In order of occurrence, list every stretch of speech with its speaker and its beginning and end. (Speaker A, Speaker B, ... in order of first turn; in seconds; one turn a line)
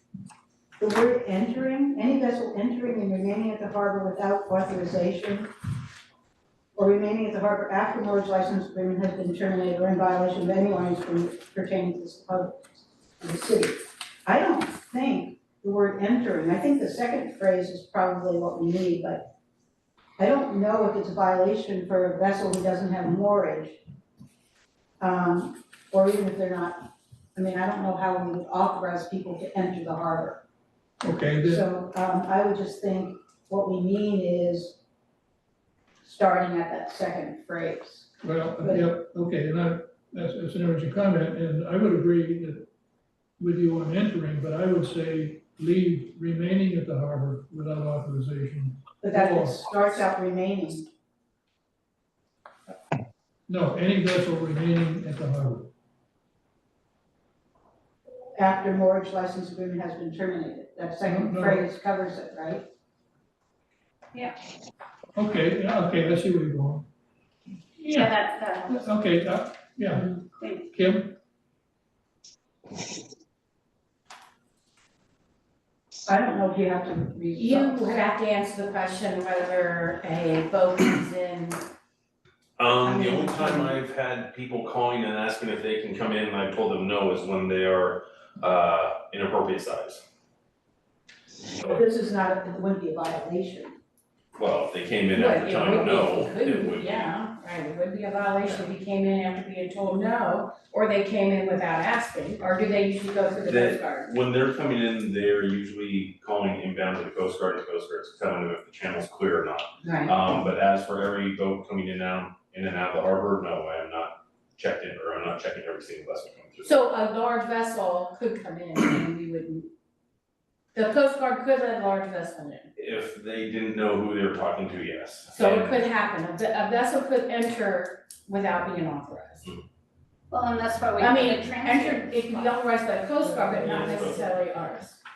Speaker A: 0.8-5.5
Speaker A: 6.8-19.3
Speaker A: 20.2-23.8
Speaker A: 25.0-30.4
Speaker B: 31.0-31.6
Speaker A: 31.4-34.8
Speaker A: 36.0-38.9
Speaker B: 38.2-42.7
Speaker B: 43.4-49.7
Speaker A: 49.0-50.9
Speaker B: 53.5-55.7
Speaker A: 58.4-62.6
Speaker B: 61.0-61.6
Speaker B: 65.2-66.9
Speaker B: 67.8-68.2
Speaker C: 67.9-68.8
Speaker B: 68.7-70.1
Speaker C: 69.9-70.7
Speaker B: 70.7-71.2
Speaker A: 76.1-78.0
Speaker D: 77.4-81.6
Speaker E: 82.6-90.0
Speaker A: 82.9-83.7
Speaker A: 91.6-93.8
Speaker E: 94.4-97.1
Speaker D: 95.2-104.1
Speaker E: 103.5-116.7
Speaker D: 109.8-110.2
Speaker D: 116.6-119.7
Speaker D: 120.8-122.7
Speaker E: 122.8-125.9
Speaker D: 125.3-129.5
Speaker C: 130.3-132.6
Speaker D: 131.0-135.0
Speaker E: 133.5-134.3